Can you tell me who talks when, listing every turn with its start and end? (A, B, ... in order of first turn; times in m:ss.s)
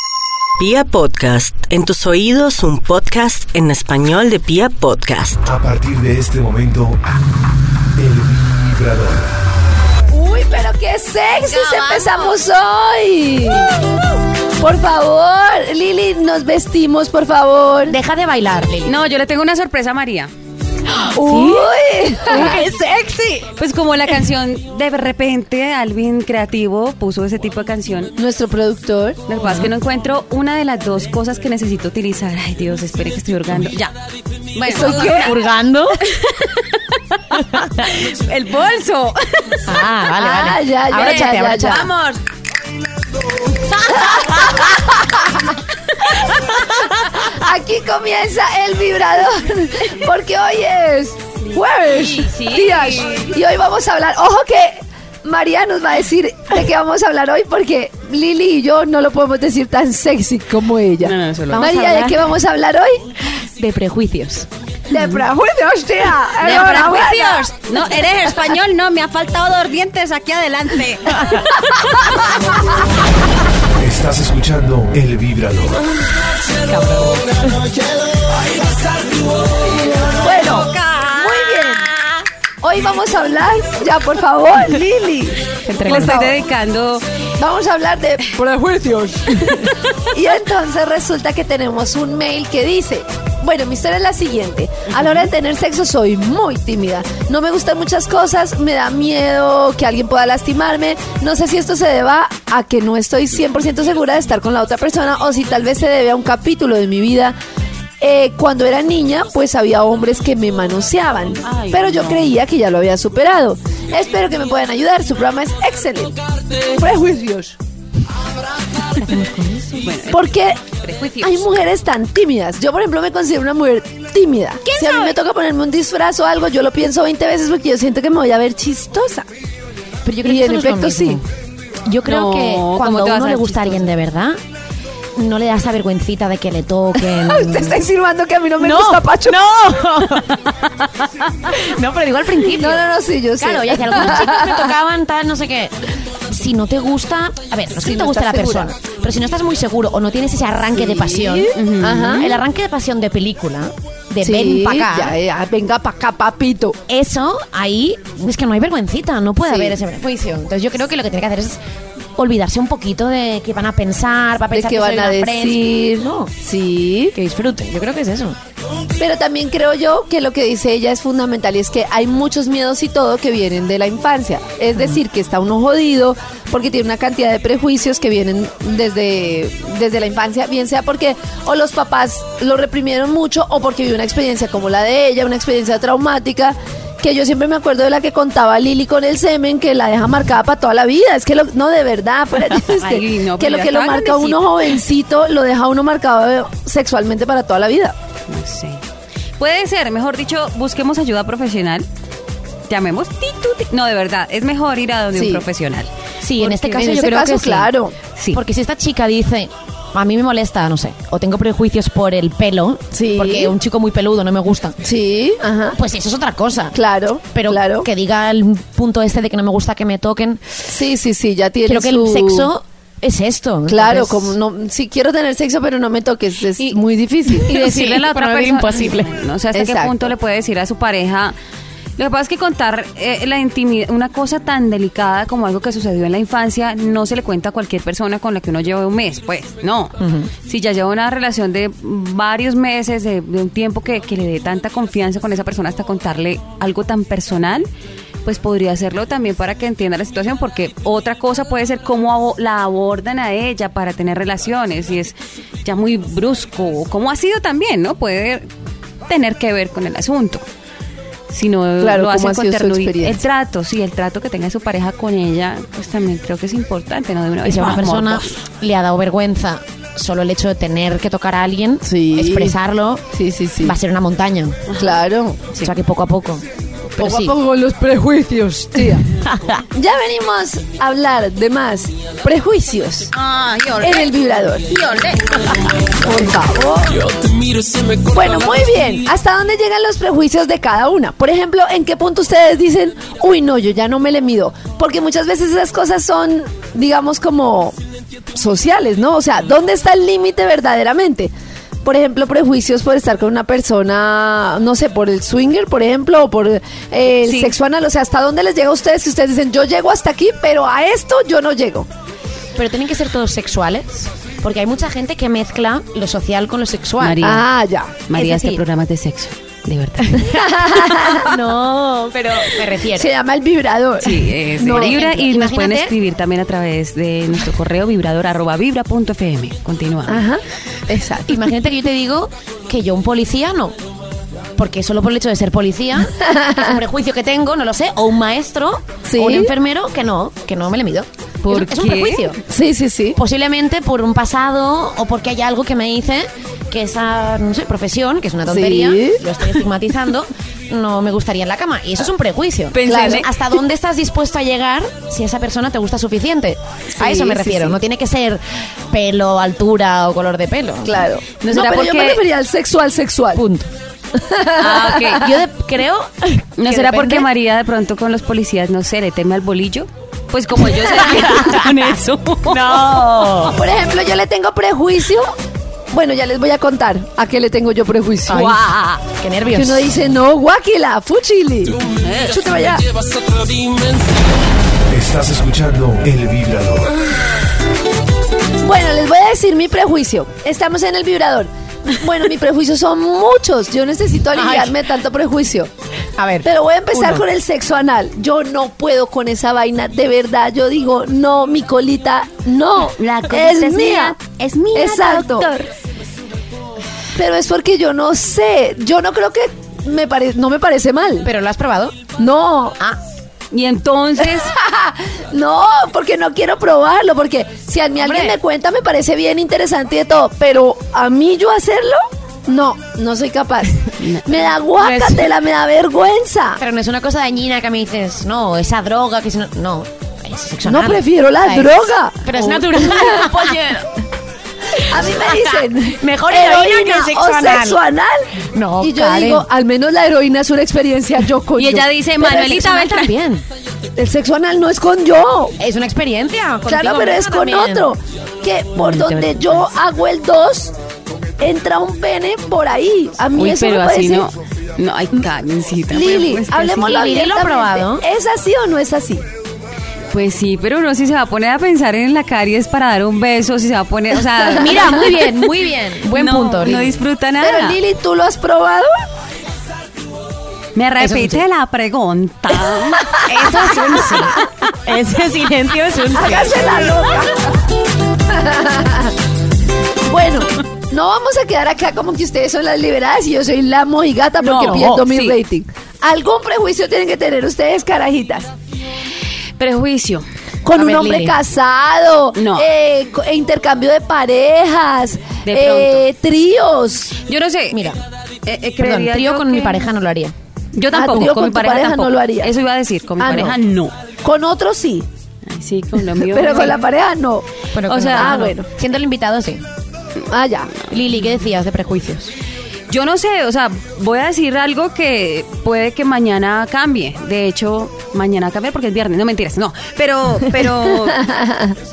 0:00.6-0:05.4 A
0:05.4-0:07.2 B
0:08.0-0:09.4 B
0:10.1-0:13.7 C
0:11.4-0:12.4 D
0:14.6-0:18.0 C
0:17.9-0:19.0 E
0:18.8-0:20.3 D
0:21.0-0:23.4 C
0:21.3-0:21.5 D
0:22.3-0:22.6 D
0:22.3-0:22.7 E
0:23.5-0:28.2 D
0:28.2-0:29.2 C
0:29.3-0:34.0 D
0:29.4-0:29.7 E
0:34.6-0:35.4 D
0:34.6-0:36.0 E
0:34.7-0:35.4 C
0:36.0-0:39.8 D
0:37.5-0:37.9 E
0:39.7-0:41.9 E
0:40.2-0:41.9 C
0:40.9-0:42.2 D
0:43.6-0:44.7 E
0:43.9-0:45.5 C
0:47.2-1:03.0 C
0:51.5-0:53.3 D
1:01.0-1:02.1 D
1:01.5-1:02.1 E
1:03.4-1:04.5 E
1:04.9-1:07.5 C
1:06.4-1:11.5 D
1:11.7-1:12.2 C
1:13.8-1:15.8 B
1:16.7-1:17.6 E
1:20.0-1:21.9 C
1:20.6-1:21.7 D
1:22.6-1:26.4 C
1:25.7-1:26.2 E
1:25.8-1:27.0 D
1:27.4-1:47.4 C
1:48.0-1:57.6 C
1:51.4-1:52.3 D
1:58.9-1:59.9 E
1:59.8-2:01.5 D
2:00.1-2:00.6 C
2:01.2-2:09.3 C
2:04.6-2:05.2 D
2:10.0-2:11.2 E
2:10.2-2:11.2 C
2:11.9-2:14.4 E
2:12.0-2:13.8 D
2:15.2-2:17.8 E
2:17.2-2:19.4 C
2:18.6-2:20.4 E
2:20.8-2:21.3 D
2:21.5-2:22.8 E
2:22.5-2:24.7 C
2:23.4-2:25.8 E
2:26.3-2:31.6 E
2:27.8-2:28.7 C
2:30.8-2:32.4 C
2:31.6-2:32.2 D
2:32.2-2:35.2 E
2:34.2-2:36.8 C
2:36.9-2:41.6 E
2:39.5-2:39.8 C
2:42.2-2:46.3 E
2:44.5-2:47.2 C
2:47.2-2:48.4 E
2:49.0-3:18.0 C
3:12.6-3:14.6 D
3:18.3-3:18.8 D
3:19.4-3:21.9 D
3:22.7-3:26.9 D
3:25.2-3:25.4 C
3:26.2-3:27.7 E
3:26.7-3:28.0 C
3:28.3-3:34.8 E
3:32.9-3:33.6 C
3:34.8-3:35.8 C
3:35.8-3:36.8 E
3:36.7-3:37.9 C
3:37.3-3:40.7 E
3:40.7-3:42.5 C
3:41.7-3:44.3 E
3:43.7-3:47.5 C
3:47.3-3:49.1 E
3:47.5-3:51.4 D
3:49.5-3:50.1 C
3:52.0-4:07.7 D
4:00.0-4:00.3 E
4:08.2-4:18.5 D
4:19.1-4:20.4 D
4:21.3-4:28.4 D
4:21.8-4:23.2 C
4:27.4-4:33.1 E
4:31.8-4:32.6 C
4:33.1-4:33.8 C
4:33.6-4:34.7 E
4:34.7-4:35.0 D
4:34.8-4:35.5 C
4:35.6-4:36.4 E
4:37.0-4:37.4 E
4:37.0-4:39.0 C
4:39.2-4:39.6 E
4:39.7-4:43.1 C
4:43.1-4:44.1 D
4:43.8-4:44.7 C
4:44.7-4:45.6 D
4:46.0-4:47.1 C
4:48.1-4:57.8 C
4:58.3-5:01.3 C
5:01.8-5:11.9 C
5:07.2-5:07.5 D
5:12.6-5:17.2 E
5:17.0-5:17.5 D
5:17.2-5:18.0 C
5:18.1-5:20.3 D
5:18.1-5:18.6 E
5:20.1-5:23.1 E
5:20.3-5:21.4 C
5:22.6-5:25.0 C
5:24.0-5:30.3 D
5:24.6-5:26.0 E
5:30.1-5:31.4 C
5:31.3-5:33.8 E
5:34.6-5:42.4 E
5:36.2-5:36.8 C
5:39.1-5:39.5 C
5:41.4-5:42.3 D
5:42.5-5:43.2 C
5:43.2-6:01.1 E
5:48.5-5:49.2 C
5:52.7-5:53.3 D
5:52.9-5:53.3 C
5:56.9-5:57.8 C
6:00.8-6:03.4 C
6:01.4-6:02.2 D
6:03.4-6:03.7 E
6:04.1-6:05.3 C
6:04.6-6:05.3 D
6:05.2-6:07.3 E
6:06.6-6:13.5 D
6:10.7-6:13.6 E
6:13.5-6:15.3 C
6:15.9-6:18.6 C
6:18.3-6:20.0 E
6:18.3-6:19.0 D
6:19.5-6:22.9 C
6:22.0-6:22.4 D
6:24.9-6:27.0 B
6:28.6-6:35.7 C
6:34.3-6:34.8 E
6:36.2-6:37.2 E
6:36.4-6:44.2 C
6:43.0-6:45.7 D
6:44.7-6:45.6 C
6:47.2-6:51.3 C
6:51.2-6:52.0 E
6:52.2-6:52.8 C
6:53.5-6:54.5 D
6:54.2-7:06.6 C
6:58.0-6:58.4 E
7:04.0-7:04.5 D
7:04.8-7:05.3 E
7:06.6-7:13.9 E
7:10.6-7:13.5 C
7:14.8-7:21.9 C
7:14.8-7:17.8 E
7:18.5-7:19.5 E
7:21.6-7:23.1 D
7:22.2-7:23.4 E
7:24.0-7:25.6 C
7:25.6-7:27.9 E
7:26.7-7:30.8 C
7:28.8-7:29.6 D
7:31.4-7:34.3 C
7:33.4-7:37.0 D
7:35.9-7:39.2 C
7:36.8-7:38.0 E
7:40.1-7:45.5 D
7:44.5-7:47.0 E
7:46.1-7:47.8 D
7:47.4-7:48.9 C
7:50.8-7:54.4 D
7:51.0-7:51.4 E
7:53.1-7:57.0 E
7:56.1-7:57.7 C
7:58.3-7:59.2 C
8:00.1-8:08.5 C
8:04.4-8:05.4 D
8:04.7-8:05.0 E
8:09.6-8:10.3 D
8:10.6-8:17.2 C
8:10.7-8:11.4 E
8:12.4-8:12.7 D
8:15.4-8:16.0 D
8:17.3-8:17.8 D
8:17.7-8:18.0 E
8:18.5-8:19.9 D
8:18.8-8:20.3 E
8:20.8-8:24.0 D
8:20.9-8:22.5 C
8:23.2-8:23.6 C
8:24.2-8:25.1 C
8:25.5-8:26.8 D
8:26.2-8:27.5 C
8:27.7-8:29.6 E
8:27.9-8:28.5 D
8:28.1-8:28.7 C
8:30.3-8:30.8 C
8:30.9-8:32.3 E
8:32.9-8:41.3 D
8:41.1-8:41.8 C